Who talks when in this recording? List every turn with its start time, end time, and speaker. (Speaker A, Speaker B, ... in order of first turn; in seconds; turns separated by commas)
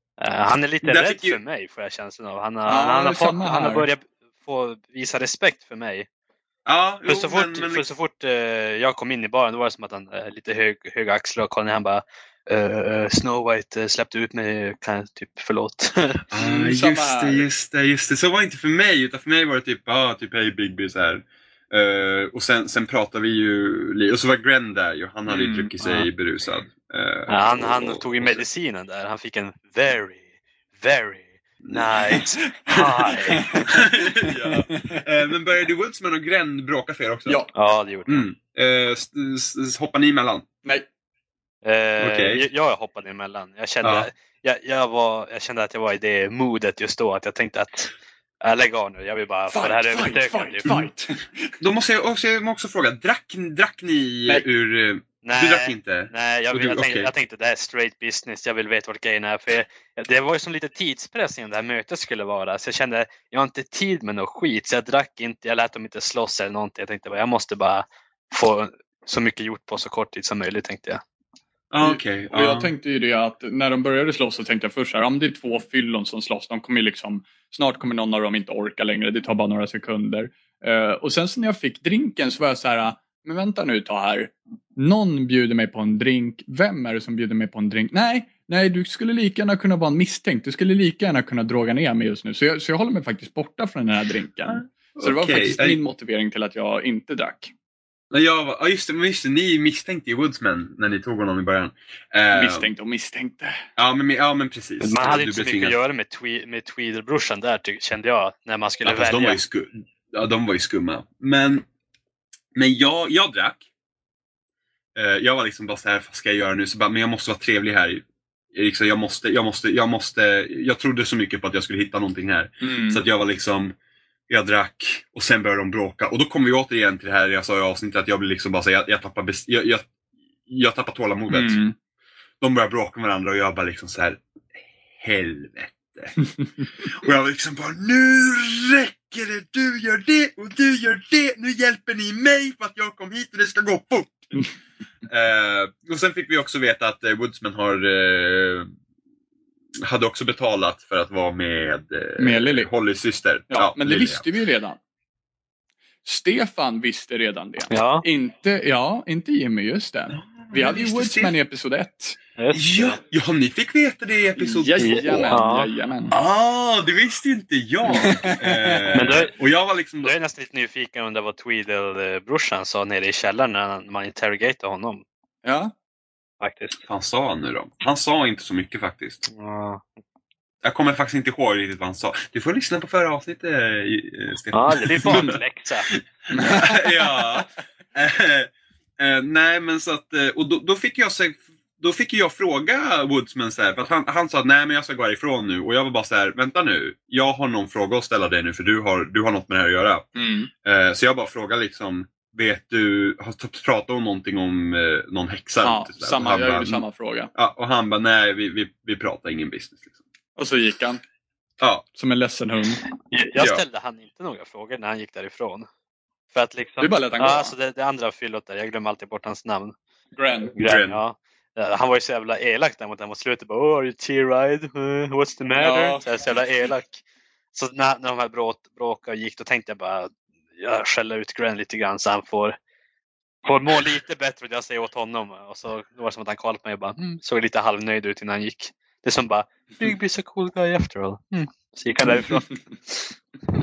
Speaker A: 0.2-6.1, Speaker B: 0.8-1.4, Speaker C: 2.7-3.9, Speaker B: 6.7-7.9, Speaker A: 7.1-16.2, Speaker B: 16.3-28.4, Speaker C: 16.4-17.5, Speaker C: 25.3-25.7, Speaker A: 25.8-26.1, Speaker A: 27.3-33.5, Speaker C: 32.8-33.8, Speaker B: 33.5-37.4, Speaker C: 34.4-35.0, Speaker A: 37.5-38.2, Speaker B: 38.1-40.5, Speaker A: 41.6-50.8, Speaker B: 42.0-42.4, Speaker B: 43.8-44.1, Speaker C: 49.5-51.6, Speaker B: 51.6-57.1, Speaker A: 55.2-71.0, Speaker B: 71.7-72.7, Speaker C: 71.8-97.5, Speaker B: 94.5-95.8, Speaker B: 98.1-102.7, Speaker C: 102.3-103.6, Speaker B: 103.8-105.8, Speaker A: 104.8-109.4, Speaker B: 108.8-111.7, Speaker B: 112.5-113.6, Speaker B: 115.0-123.8, Speaker C: 122.6-123.0, Speaker B: 124.3-129.9, Speaker B: 130.5-131.6, Speaker C: 131.3-131.8, Speaker B: 132.4-136.2, Speaker B: 136.8-144.3, Speaker B: 145.1-148.7, Speaker B: 149.8-154.2, Speaker C: 152.2-152.7, Speaker C: 153.5-154.8, Speaker C: 156.1-162.2, Speaker A: 157.7-158.1, Speaker B: 160.2-161.3, Speaker A: 162.4-163.0, Speaker B: 162.5-165.4, Speaker C: 164.4-166.2, Speaker A: 164.8-165.7, Speaker B: 166.1-170.1, Speaker C: 167.8-169.1, Speaker A: 168.9-169.3, Speaker A: 170.0-175.0, Speaker C: 175.4-175.7, Speaker A: 176.4-176.8, Speaker B: 176.9-179.3, Speaker A: 179.3-179.8, Speaker B: 180.6-185.4, Speaker A: 184.5-185.9, Speaker B: 185.9-200.1, Speaker C: 186.3-187.4, Speaker C: 200.2-200.5, Speaker B: 200.6-209.9, Speaker C: 205.6-207.3, Speaker C: 210.4-211.0, Speaker B: 211.6-211.8, Speaker C: 211.9-212.8, Speaker A: 213.1-215.7, Speaker A: 216.3-219.8, Speaker C: 216.8-217.5, Speaker C: 220.2-220.5, Speaker A: 220.6-227.0, Speaker B: 220.6-221.0, Speaker C: 225.6-226.0, Speaker A: 227.5-232.6, Speaker A: 233.4-243.1, Speaker C: 242.2-242.4